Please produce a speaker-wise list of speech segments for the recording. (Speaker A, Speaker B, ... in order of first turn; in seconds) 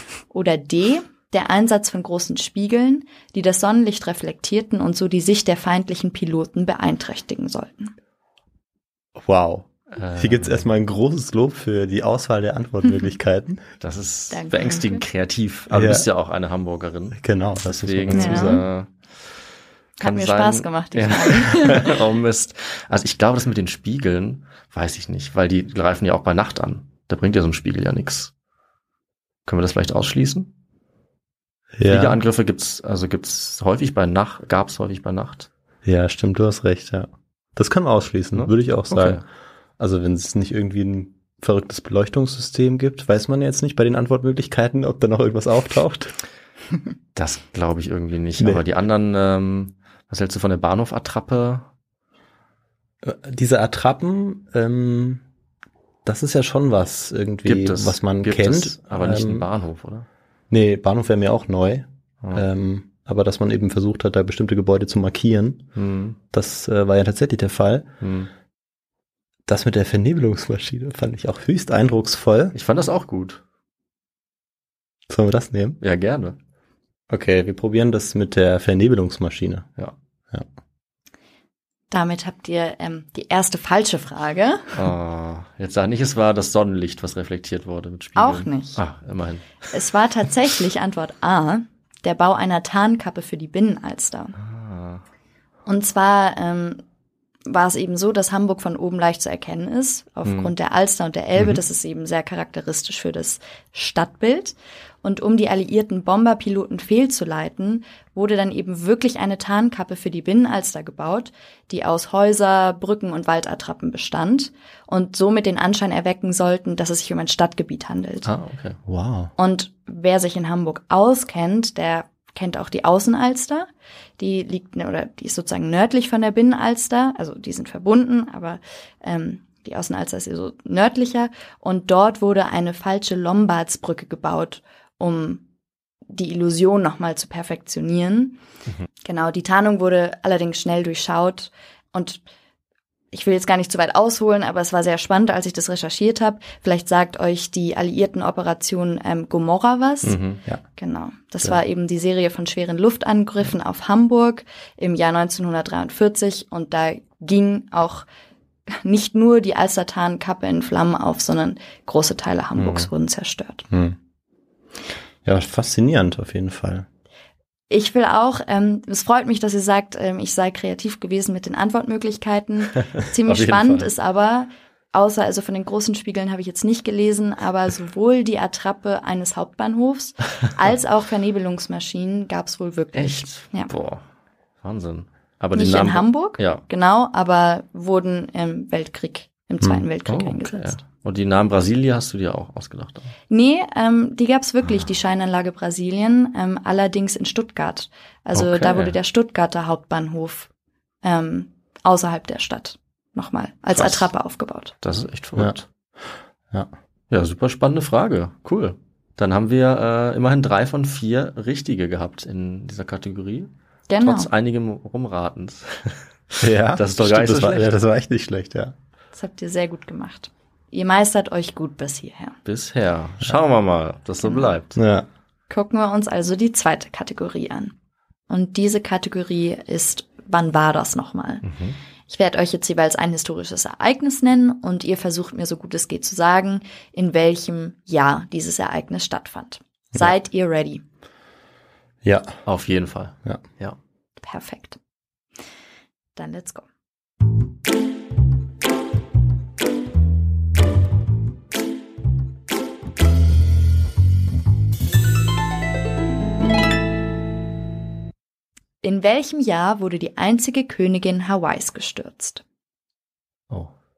Speaker A: 0.3-7.9, 14.3-15.0, 18.1-18.6, 20.0-21.9, 81.9-84.7, 88.2-88.8, 89.7-94.3, 95.7-96.8, 97.5-118.3, 119.4-135.4, 136.1-138.4, 139.0-142.2, 143.1-150.2, 150.8-158.1, 158.7-163.6, 167.7-183.7, 185.5-190.8, 193.3-200.5, 201.0-204.7, 213.9-214.3, 219.1-222.3, 224.2-224.6, 225.5-227.7, 228.3-231.4, 232.1-240.8, 244.2-244.8, 246.2-246.7, 258.8-262.4
Speaker B: 9.2-13.6, 15.7-16.1, 17.2-18.6, 31.7-32.2, 35.8-39.2, 39.8-46.1, 48.4-48.6, 53.0-55.2, 56.0-59.5, 60.5-65.7, 66.3-67.9, 69.5-72.5, 75.1-75.8, 77.1-79.7, 118.9-119.3, 163.7-164.0, 165.2-166.8, 216.4-218.7, 224.8-225.1, 242.0-242.3
Speaker C: 9.9-10.7, 13.8-18.9, 20.0-28.3, 29.5-30.5, 31.8-35.5, 38.3-39.2, 47.1-51.7, 57.4-60.0, 65.7-66.2, 68.0-68.3, 72.5-73.4, 75.8-76.4, 84.7-89.7, 94.4-95.0, 100.2-100.5, 118.2-118.8, 150.0-150.4, 162.6-162.9, 173.2-173.9, 182.9-184.0, 184.6-186.6, 190.1-193.1, 198.3-199.0, 203.7-204.1, 204.8-205.7, 207.1-217.7, 222.4-224.8, 231.4-231.8, 242.4-243.8